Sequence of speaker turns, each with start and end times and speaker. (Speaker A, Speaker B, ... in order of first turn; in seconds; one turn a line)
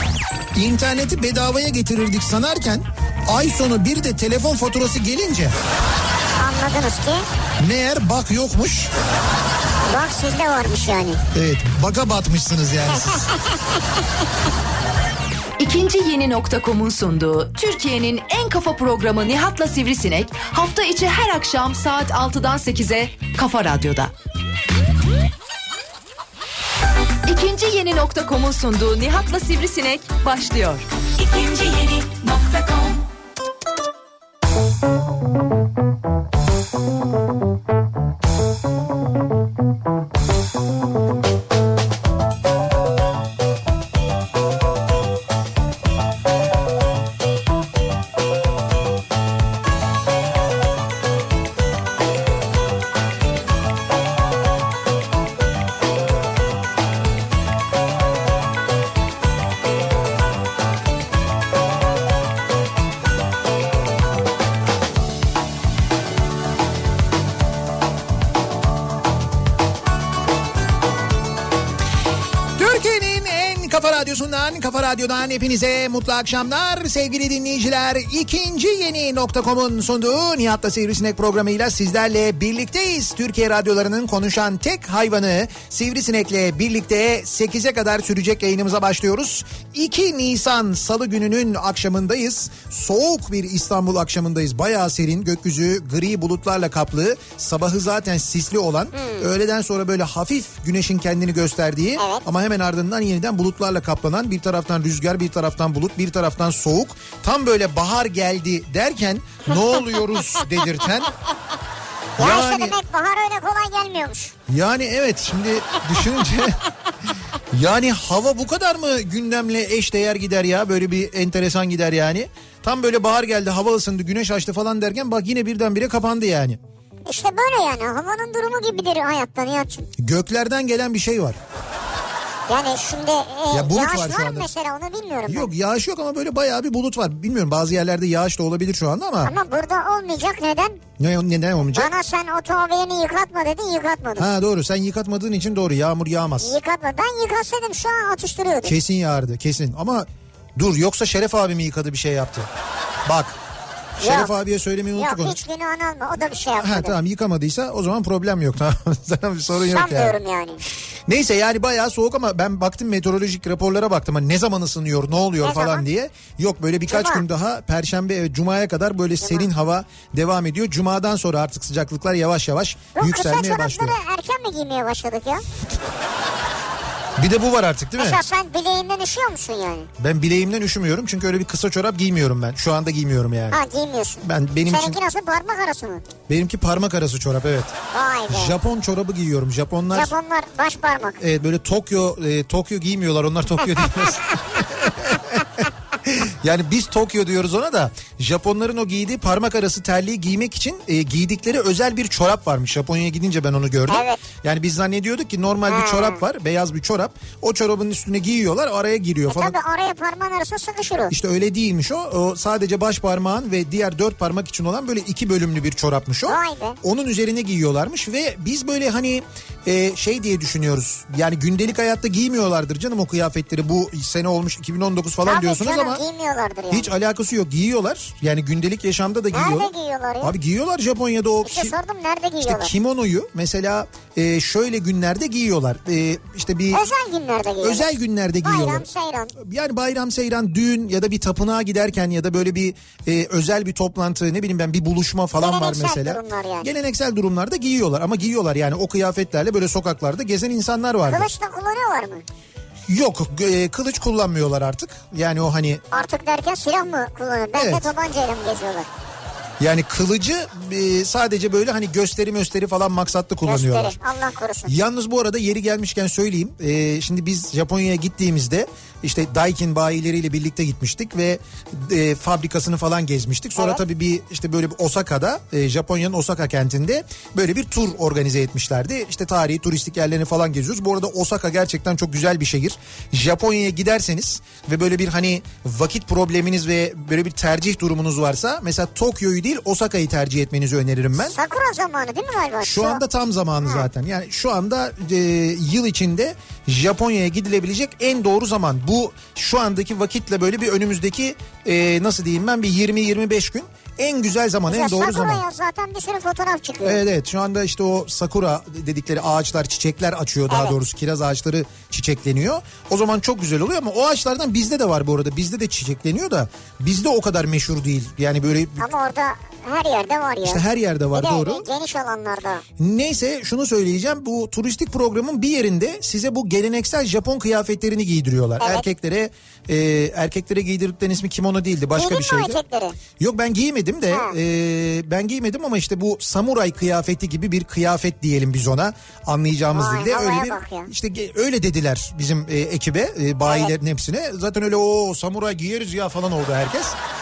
Speaker A: 0.5-5.5
Speaker B: 6.4-7.2
Speaker A: 7.6-8.9
Speaker B: 9.9-11.2
Speaker A: 11.3-13.3
Speaker B: 13.2-13.6
Speaker C: 15.6-24.1
Speaker C: 27.2-33.1
Speaker A: 72.6-111.1
Speaker B: 98.9-99.3
Speaker B: 102.0-102.2
Speaker A: 112.2-112.8
Speaker B: 112.2-114.3
Speaker A: 114.5-116.6
Speaker A: 117.5-126.6
Speaker B: 127.0-129.9
Speaker A: 130.0-131.4
Speaker B: 132.5-135.5
Speaker A: 133.5-134.5
Speaker A: 135.3-139.3
Speaker B: 139.2-140.8
Speaker A: 141.0-141.9
Speaker B: 141.7-144.3
Speaker A: 144.2-146.6
Speaker B: 146.4-148.7
Speaker A: 148.6-152.5
Speaker A: 153.1-153.4
Speaker A: 154.0-155.4
Speaker B: 154.0-154.3
Speaker B: 154.9-156.9
Speaker A: 156.6-160.2
Speaker B: 159.6-160.6
Speaker A: 161.1-174.0
Speaker B: 165.4-165.8
Speaker B: 166.9-167.2
Speaker B: 169.2-169.5
Speaker B: 172.9-175.4
Speaker A: 177.2-178.2
Speaker B: 178.0-179.9
Speaker A: 180.0-183.6
Speaker B: 183.5-186.0
Speaker A: 184.2-185.0
Speaker A: 186.3-187.7
Speaker B: 187.9-188.6
Speaker A: 188.3-190.1
Speaker B: 189.9-191.2
Speaker A: 191.2-209.5
Speaker B: 203.9-204.2
Speaker B: 205.7-206.2
Speaker B: 209.3-211.1
Speaker A: 211.1-226.0
Speaker B: 216.2-216.8
Speaker B: 225.2-226.9
Speaker A: 226.7-231.8
Speaker B: 229.3-230.3
Speaker B: 231.4-232.7
Speaker A: 232.4-236.8
Speaker B: 236.7-237.9
Speaker A: 237.6-251.3
Speaker B: 238.4-239.3
Speaker B: 245.4-246.7
Speaker B: 251.1-252.2
Speaker A: 252.9-255.8
Speaker B: 255.9-258.9
Speaker A: 257.5-257.9
Speaker A: 259.6-264.0
Speaker B: 263.4-264.7
Speaker A: 264.6-291.4
Speaker B: 291.2-293.0
Speaker A: 292.6-305.4
Speaker B: 304.7-307.0
Speaker A: 306.8-318.9
Speaker B: 310.5-310.8
Speaker B: 318.8-320.6
Speaker A: 320.4-321.7
Speaker B: 321.1-322.6
Speaker A: 322.8-332.6
Speaker B: 328.6-328.9
Speaker B: 331.9-333.0
Speaker A: 333.2-346.9
Speaker B: 334.1-334.4
Speaker B: 339.7-340.9
Speaker B: 343.4-343.7